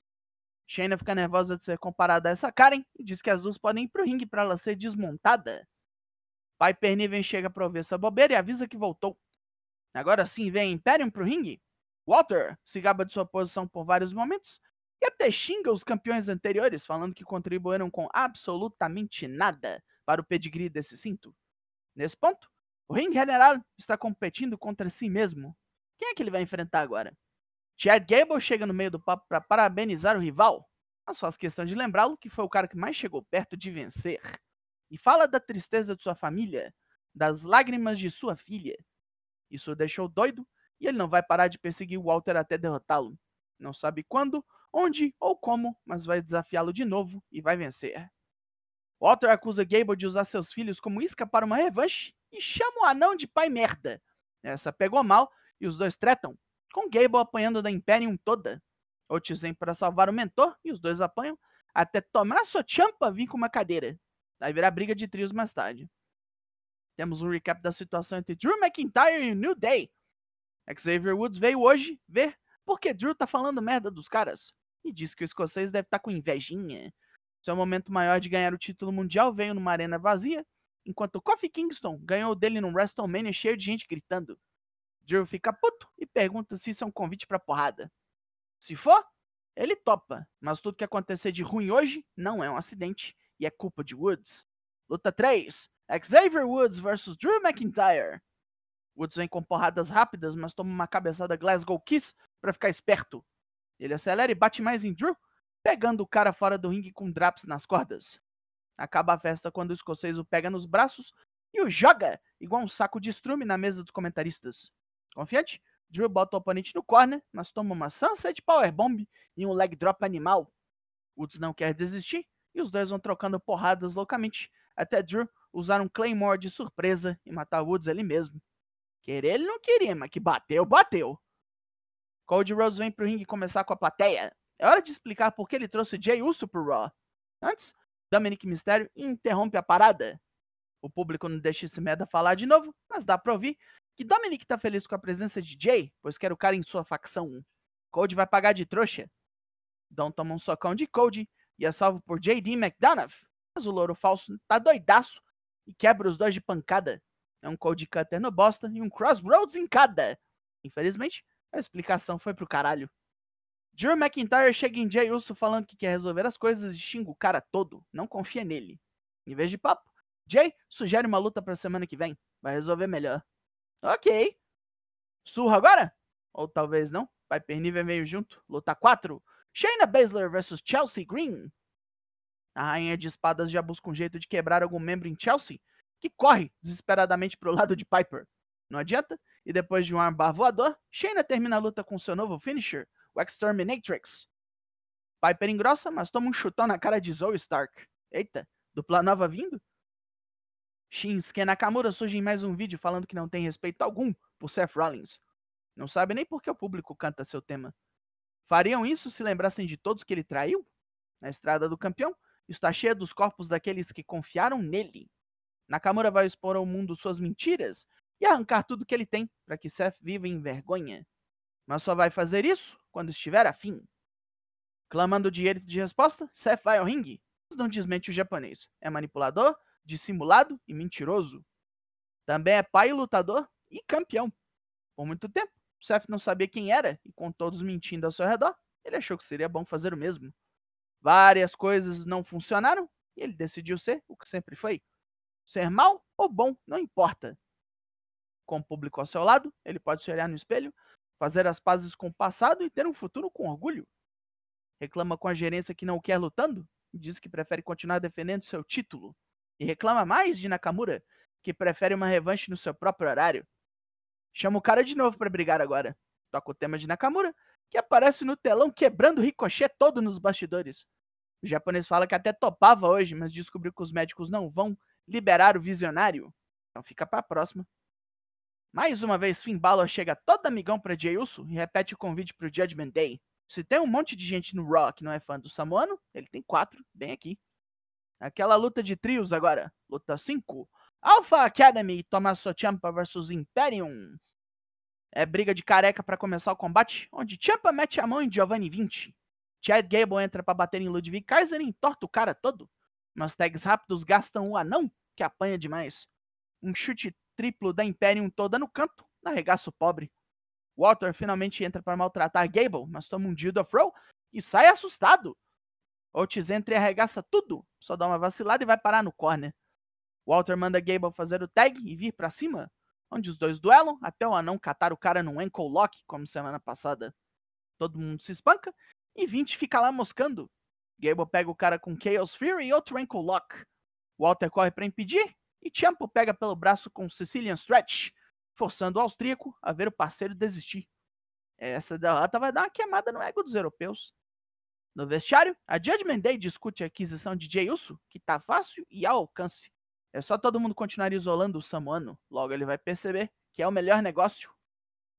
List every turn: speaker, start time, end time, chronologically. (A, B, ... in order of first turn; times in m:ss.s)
0:00.7-0:05.6 A
0:06.6-0:09.2 A
0:09.9-0:21.3 A
0:22.0-0:27.2 A
0:27.8-0:34.4 A
0:34.9-0:38.8 A
0:39.5-0:48.1 A
0:49.0-1:05.9 A
1:07.0-1:09.9 A
1:10.7-1:24.4 A
1:25.0-1:27.9 A
1:28.6-1:29.0 A
1:29.6-1:38.2 A
1:39.0-1:43.2 A
1:43.8-1:48.2 A
1:48.8-2:00.5 A
2:01.2-2:08.4 A
2:09.0-2:11.2 A
2:12.2-2:20.2 A
2:20.8-2:29.1 A
2:29.9-2:42.9 A
2:43.7-2:53.2 A
2:53.8-2:54.3 A
2:55.2-3:01.5 A
3:02.5-3:14.3 A
3:15.2-3:19.6 A
3:20.9-3:25.2 A
3:25.8-3:27.7 A
3:28.4-3:30.6 A
3:31.2-3:35.1 A
3:35.7-3:41.0 A
3:41.7-3:43.8 A
3:44.9-3:51.4 A
3:52.2-3:54.3 A
3:55.0-4:00.3 A
4:01.0-4:04.8 A
4:05.4-4:07.4 A
4:08.5-4:13.9 A
4:14.8-4:23.4 A
4:24.3-4:30.8 A
4:31.4-4:37.7 A
4:38.7-4:47.4 A
4:48.2-4:54.2 A
4:55.1-5:06.1 A
5:06.6-5:10.1 A
5:10.8-5:15.4 A
5:16.1-5:19.5 A
5:20.2-5:27.1 A
5:27.8-5:33.6 A
5:34.2-5:40.9 A
5:41.6-5:44.1 A
5:44.9-5:54.5 A